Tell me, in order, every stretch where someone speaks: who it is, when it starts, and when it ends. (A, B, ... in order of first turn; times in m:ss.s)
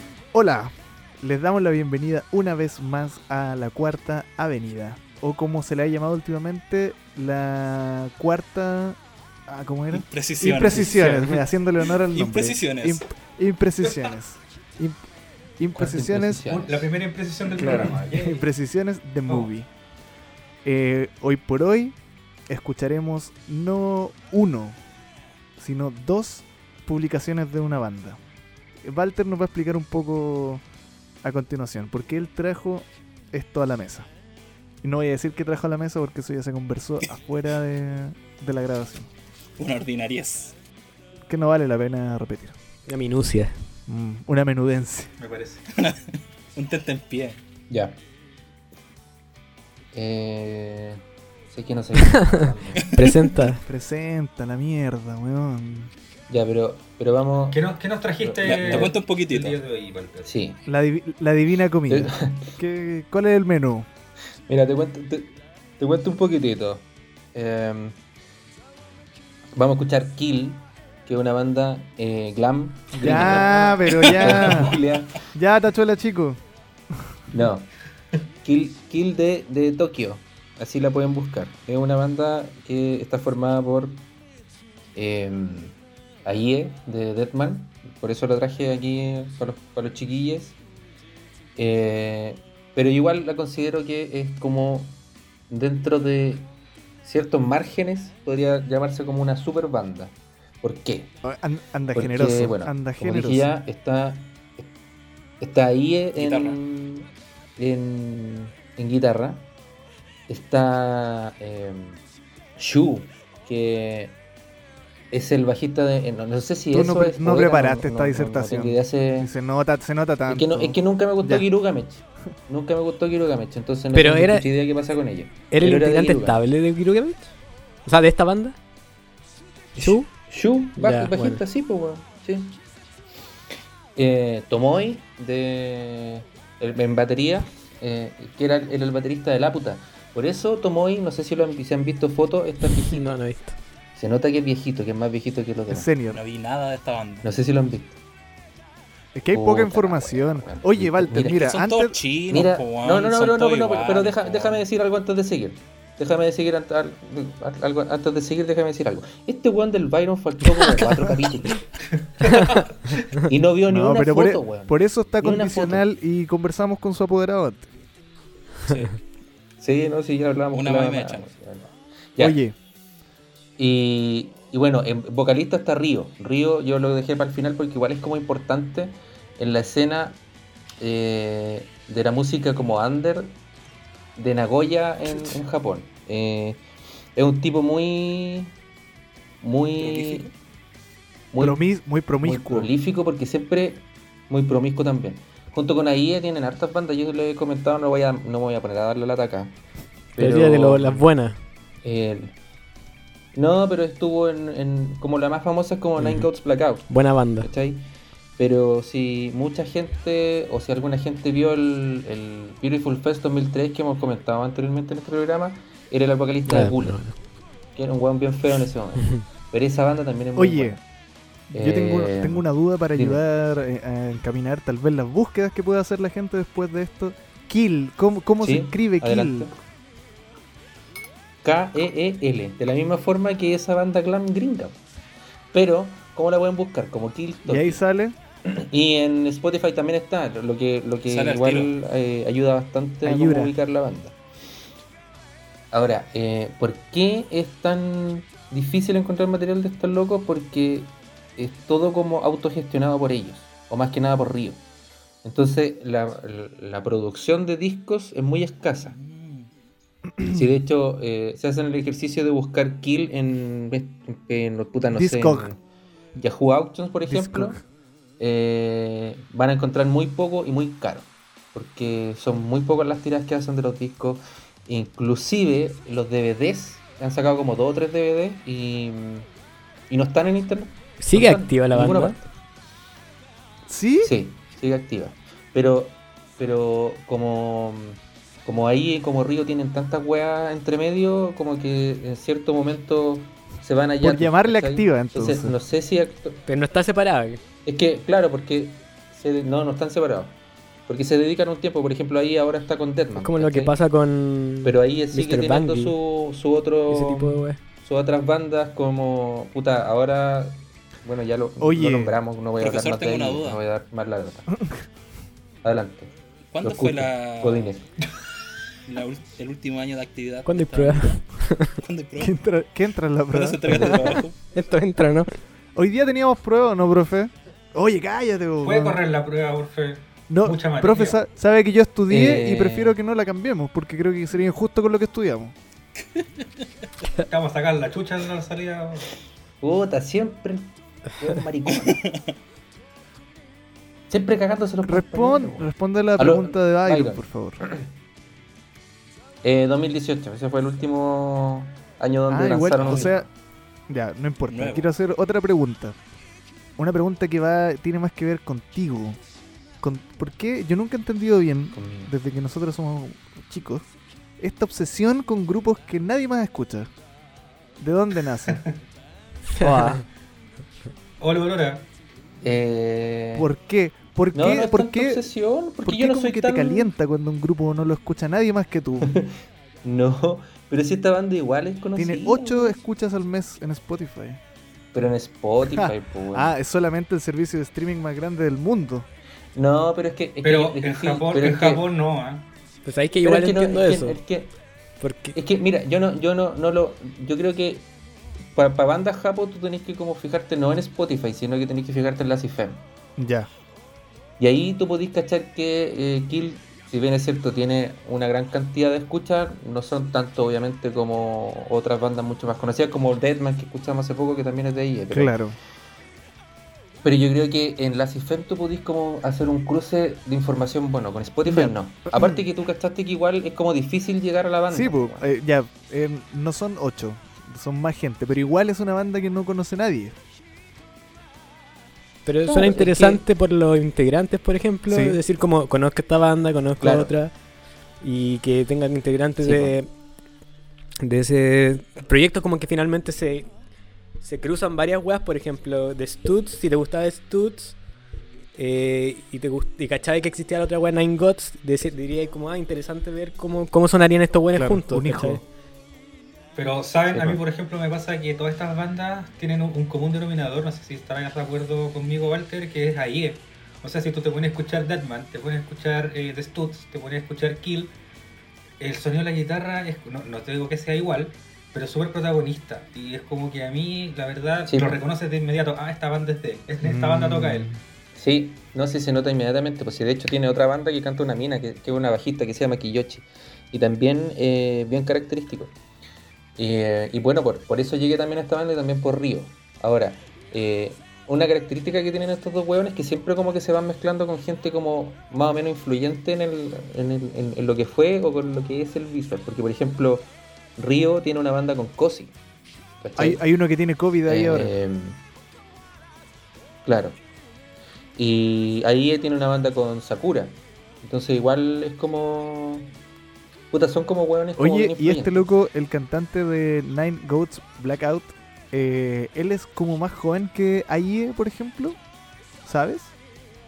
0:00.3-0:15.0 A
0:09.9-0:13.0 B
0:13.8-0:14.1 C
0:15.6-0:16.4 A
0:15.7-0:16.9 D
0:16.5-0:18.4 C
0:17.6-0:19.7 A
0:17.6-0:17.9 D
0:20.6-0:22.0 A
0:22.5-0:24.8 A
0:25.6-0:28.2 A
0:28.8-0:30.6 A
0:31.2-0:34.1 A
0:34.8-0:39.1 A
0:39.6-0:40.6 B
0:41.3-0:42.6 A
0:42.9-0:43.5 E
0:43.9-0:45.1 A
0:45.2-0:45.6 C
0:45.7-0:47.4 B
0:47.7-0:48.0 D
0:49.9-0:51.0 D
0:51.5-0:53.0 D
0:52.7-0:53.2 B
0:52.9-0:53.6 E
0:53.5-0:55.9 A
0:56.3-0:57.6 D
0:57.5-1:00.3 C
0:58.2-0:58.9 D
0:58.4-0:59.6 B
1:00.2-1:00.6 D
1:00.7-1:03.9 A
1:01.9-1:02.5 D
1:04.5-1:08.0 D
1:09.5-1:15.2 D
1:12.9-1:14.8 A
1:13.0-1:14.8 B
1:15.3-1:16.4 A
1:17.3-1:17.7 D
1:18.4-1:24.0 D
1:24.9-1:30.6 D
1:31.6-1:36.5 D
1:37.0-1:41.1 D
1:41.2-1:43.5 A
1:41.9-1:44.7 D
1:45.4-1:49.5 D
1:46.2-1:46.6 B
1:50.3-1:52.0 D
1:52.6-1:54.2 D
1:55.1-1:59.3 D
1:56.7-2:01.5 A
2:00.3-2:06.4 D
2:03.9-2:04.5 E
2:05.5-2:07.3 E
2:07.8-2:08.6 E
2:09.8-2:12.6 D
2:09.8-2:10.1 E
2:10.8-2:11.4 E
2:14.0-2:23.1 D
2:22.7-2:23.6 E
2:24.0-2:25.9 D
2:25.7-2:26.2 A
2:26.1-2:27.3 B
2:27.2-2:28.0 D
2:29.1-2:32.0 A
2:29.3-2:31.5 D
2:31.2-2:34.6 B
2:32.3-2:41.7 D
2:42.2-2:42.5 C
2:43.1-2:45.8 D
2:43.7-2:47.7 A
2:48.7-2:49.0 B
2:49.6-2:52.4 D
2:50.5-2:51.3 B
2:52.2-2:52.6 A
2:53.6-3:00.2 D
3:00.8-3:03.4 D
3:04.2-3:06.6 D
3:05.1-3:05.3 A
3:07.2-3:08.5 D
3:09.4-3:10.3 D
3:09.8-3:10.3 B
3:11.3-3:11.6 D
3:11.4-3:12.7 A
3:12.2-3:19.6 D
3:20.1-3:21.1 D
3:20.2-3:21.4 E
3:21.8-3:22.3 D
3:23.3-3:37.0 D
3:26.9-3:27.5 E
3:36.5-3:37.2 E
3:37.7-3:40.8 D
3:40.4-3:40.8 A
3:41.5-3:49.5 A
3:41.5-3:43.2 D
3:48.4-3:49.5 D
3:51.4-3:54.8 D
3:55.5-3:57.8 D
3:57.4-3:58.2 A
3:58.4-4:04.2 D
4:01.0-4:01.8 B
4:03.0-4:03.5 A
4:05.7-4:14.6 D
4:15.2-4:19.0 D
4:18.8-4:19.5 B
4:20.2-4:25.6 D
4:24.9-4:25.5 A
4:26.2-4:27.6 D
4:27.0-4:27.6 A
4:28.2-4:39.3 D
4:39.9-4:42.3 D
4:41.0-4:42.1 E
4:43.7-4:44.1 A
4:44.0-4:56.4 D
4:54.0-4:55.5 A
4:56.5-4:57.4 E
4:57.6-5:00.4 D
5:00.9-5:03.7 D
5:03.2-5:06.0 E
5:04.6-5:14.5 D
5:06.9-5:07.6 E
5:11.6-5:12.2 A
5:12.6-5:13.6 B
5:14.5-5:14.8 A
5:15.6-5:17.8 D
5:16.5-5:17.7 B
5:18.8-5:21.2 B
5:20.4-5:21.7 E
5:21.8-5:22.3 B
5:22.2-5:24.2 A
5:23.3-5:24.4 B
5:23.7-5:25.3 E
5:25.8-5:29.0 A
5:28.6-5:31.2 C
5:30.3-5:35.6 A
5:32.1-5:33.0 D
5:36.2-5:36.4 B
5:37.2-5:39.1 C
5:39.6-5:42.0 D
5:41.8-5:42.3 B
5:44.1-5:47.9 D
5:44.8-5:47.6 A
5:49.4-5:53.3 D
5:52.3-5:53.3 A
5:52.8-5:53.1 B
5:53.9-5:56.0 A
5:54.5-5:54.9 B
5:56.8-5:59.2 A
5:59.8-6:03.8 A
6:01.7-6:02.1 D
6:04.4-6:06.9 A
6:07.8-6:08.6 A
6:09.5-6:10.0 E
6:11.2-6:11.9 C
6:12.4-6:13.5 D
6:13.4-6:15.3 A
6:14.3-6:16.9 D
6:15.8-6:19.1 A
6:19.0-6:22.8 D
6:22.0-6:24.4 A
6:24.9-6:26.5 D
6:25.6-6:29.1 A
6:29.5-6:31.8 D
6:30.4-6:32.4 C
6:32.8-6:34.2 E
6:33.2-6:34.5 D
6:35.0-6:35.4 E
6:35.3-6:37.9 D
6:38.5-6:42.8 D
6:43.2-6:43.5 A
6:44.4-6:55.4 D
6:55.1-6:55.6 A
6:57.0-7:05.2 D
7:01.4-7:02.4 A
7:04.7-7:10.2 A
7:12.2-7:17.3 E
7:12.4-7:13.2 D
7:14.9-7:15.2 A
7:16.8-7:17.1 D
7:18.0-7:19.9 E
7:19.4-7:19.7 D
7:21.0-7:23.5 E
7:24.2-7:27.8 E
7:28.5-7:35.4 E
7:34.5-7:35.4 A
7:36.6-7:47.9 C
7:37.1-7:37.4 D
7:48.8-7:57.7 C
7:54.7-7:55.0 D
7:56.8-7:57.8 A
7:58.1-8:05.7 D
8:06.6-8:22.4 D
8:23.0-8:23.4 D
8:23.2-8:24.7 A
8:24.3-8:25.2 D
8:26.8-8:27.2 D
8:28.1-8:32.9 D
8:33.7-8:35.5 D
8:34.6-8:42.0 A
8:42.6-8:43.1 A